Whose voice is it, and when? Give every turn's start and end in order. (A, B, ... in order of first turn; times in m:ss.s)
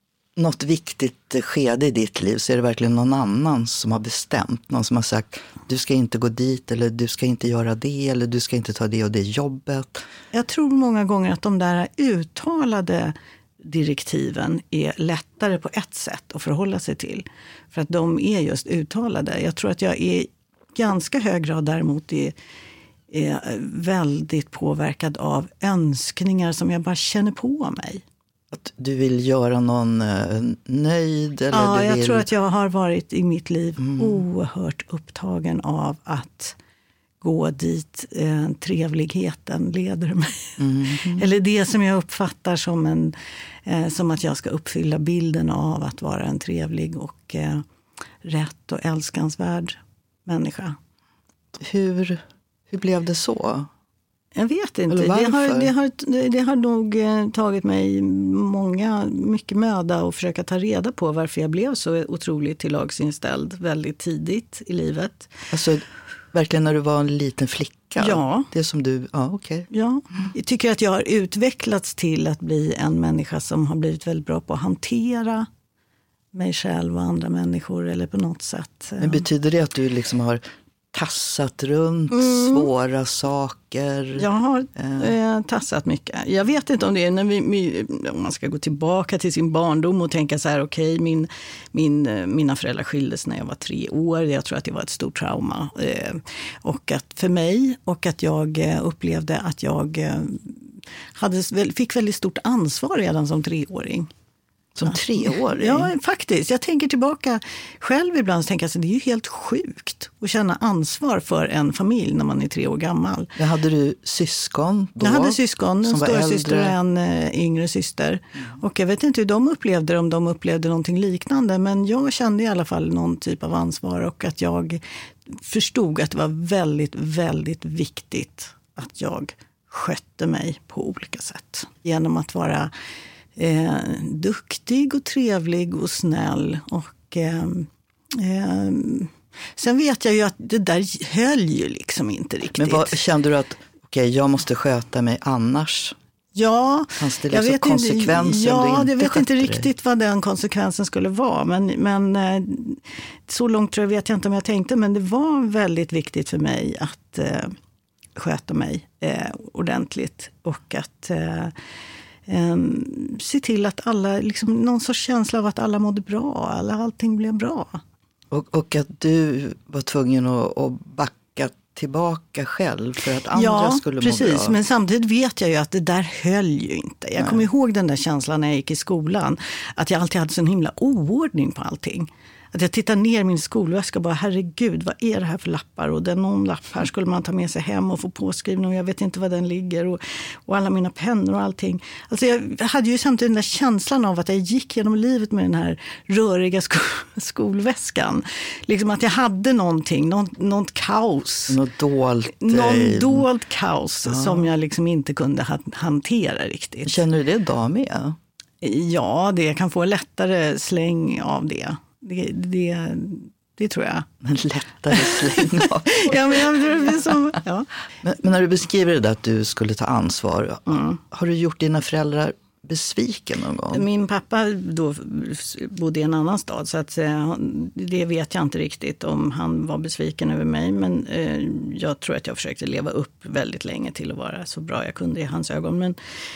0:00.4-0:10.0 A
0:10.3-0:22.4 B
0:23.1-0:28.0 B
0:28.5-0:32.3 A
0:31.5-0:36.6 B
0:33.8-0:34.2 A
0:37.2-0:47.7 B
0:40.6-0:41.2 A
0:48.2-0:50.8 B
0:51.6-0:53.7 A
0:54.4-1:05.3 B
0:54.9-0:55.7 A
1:05.5-1:10.3 A
1:08.0-1:08.5 B
1:09.7-1:15.5 B
1:16.3-1:19.3 B
1:19.0-1:25.1 A
1:22.1-1:22.7 B
1:24.2-1:44.1 B
1:44.8-1:45.9 A
1:44.9-1:53.4 B
1:53.4-1:56.8 A
1:55.0-2:12.7 B
2:13.4-2:23.0 B
2:22.6-2:26.0 A
2:26.3-2:37.6 B
2:27.0-2:29.7 A
2:38.2-2:41.5 B
2:42.3-2:47.8 B
2:48.3-2:54.6 A
2:53.3-3:21.6 B
2:57.2-2:57.4 A
3:21.5-3:23.2 A
3:22.4-3:27.0 B
3:24.1-3:24.5 A
3:26.8-3:28.2 A
3:28.6-3:34.1 B
3:34.2-3:36.5 A
3:34.9-3:37.7 B
3:38.0-3:43.8 A
3:40.7-3:41.0 B
3:43.7-3:56.0 B